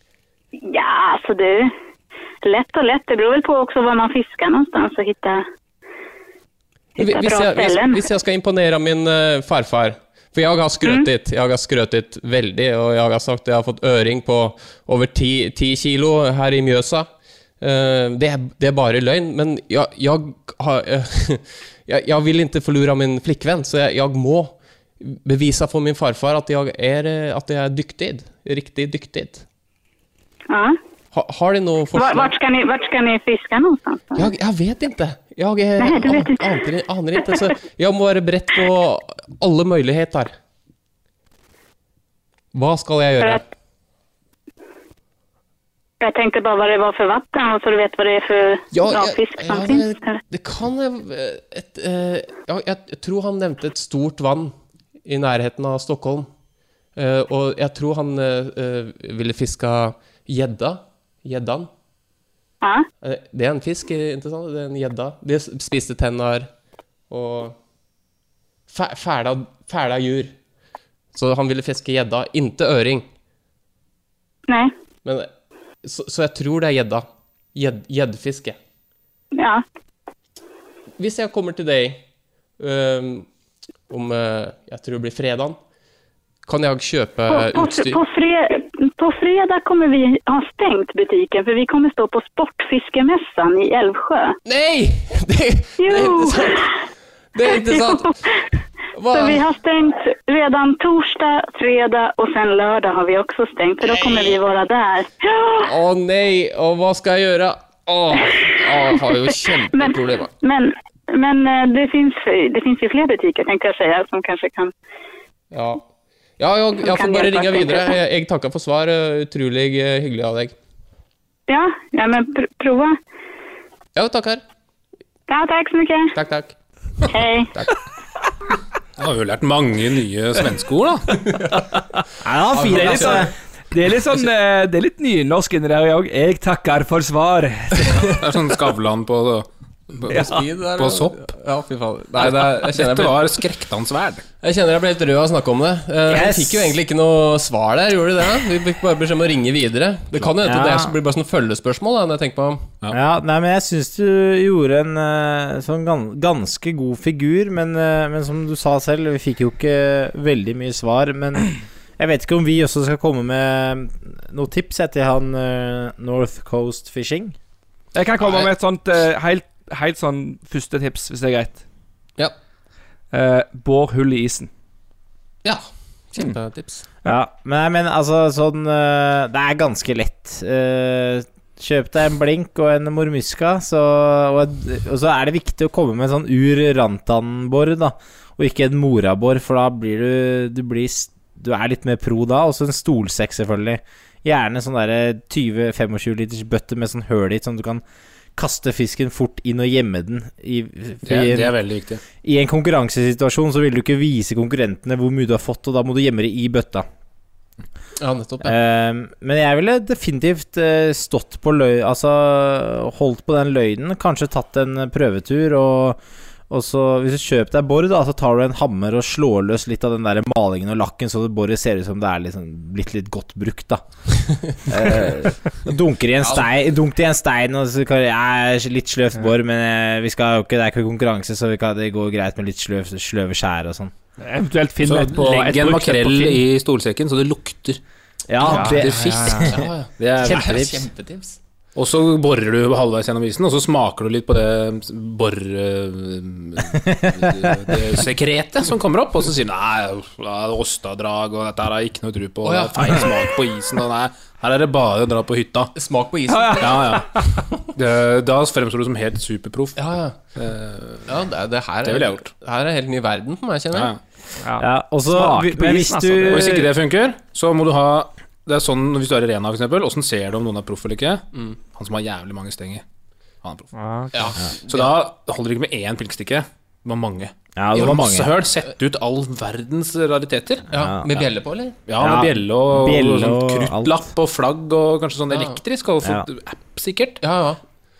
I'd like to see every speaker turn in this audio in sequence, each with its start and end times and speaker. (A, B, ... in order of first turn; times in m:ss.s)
0:00.6-0:01.7 A
0:02.4-0:05.4 A
0:07.0-0:08.1 A
0:07.0-0:17.1 B
0:17.6-0:29.4 B
0:30.5-0:30.8 A
0:31.1-0:32.3 B
0:32.0-0:34.3 A
0:34.2-0:40.3 B
0:35.8-0:36.6 A
0:42.5-0:43.4 B
0:46.0-0:50.2 A
0:48.7-0:56.3 B
0:57.0-1:01.7 B
1:03.0-1:06.5 B
1:07.1-1:07.6 B
1:08.7-1:10.3 B
1:11.1-1:13.1 B
1:14.5-1:14.7 A
1:15.0-1:15.3 B
1:15.8-1:18.6 B
1:19.4-1:19.6 A
1:21.0-1:22.0 B
1:22.6-1:23.3 B
1:23.9-1:25.6 B
1:26.5-1:28.0 B
1:27.3-1:34.4 A
1:34.5-1:36.7 B
1:35.8-1:36.7 A
1:37.3-1:38.1 B
1:37.4-1:38.4 A
1:38.9-1:39.4 B
1:39.1-1:45.7 A
1:44.1-1:44.3 B
1:45.6-1:50.3 B
1:48.2-1:54.7 A
1:55.5-1:55.8 B
1:56.4-2:00.6 B
1:56.8-1:58.0 A
2:01.5-2:03.0 A
2:04.0-2:04.4 B
2:05.3-2:06.2 A
2:06.1-2:06.6 B
2:07.1-2:07.5 A
2:09.0-2:11.2 C
2:11.2-2:11.7 B
2:12.2-2:13.3 D
2:12.5-2:13.3 B
2:12.6-2:18.2 E
2:18.0-2:21.2 C
2:20.1-2:23.4 B
2:22.2-2:24.2 C
2:24.4-2:32.6 B
2:26.1-2:26.8 D
2:30.4-2:30.9 D
2:32.9-2:47.4 D
2:47.9-2:51.6 E
2:48.2-2:48.5 B
2:53.1-2:54.5 E
2:55.4-2:56.8 B
2:57.1-3:17.8 D
3:18.4-3:21.6 D
3:21.1-3:22.0 C
3:22.2-3:26.9 D
3:28.0-3:28.6 B
3:28.4-3:43.8 D
3:44.6-3:53.9 D
3:54.2-3:56.4 E
3:54.8-3:57.8 C
3:58.3-4:00.9 D
3:58.4-4:00.5 C
3:58.5-3:59.5 E
3:59.2-4:01.4 B
4:01.8-4:15.7 C
4:06.7-4:07.8 D
4:12.4-4:13.2 B
4:15.8-4:17.2 B
4:16.3-4:17.2 E
4:16.6-4:17.1 C
4:17.7-4:19.8 C
4:19.8-4:20.2 B
4:20.3-4:21.2 C
4:21.1-4:23.9 B
4:21.8-4:22.3 C
4:23.7-4:24.0 C
4:24.4-4:26.7 E
4:24.6-4:26.6 D
4:26.3-4:32.8 C
4:33.4-4:33.7 C
4:33.8-4:34.4 E
4:34.1-4:34.9 B
4:34.7-4:40.7 C
4:37.6-4:38.3 D
4:40.7-4:41.8 B
4:40.7-4:41.2 D
4:41.9-4:47.2 C
4:42.0-4:44.1 D
4:45.3-4:45.6 B
4:46.0-4:46.3 D
4:47.2-4:47.6 B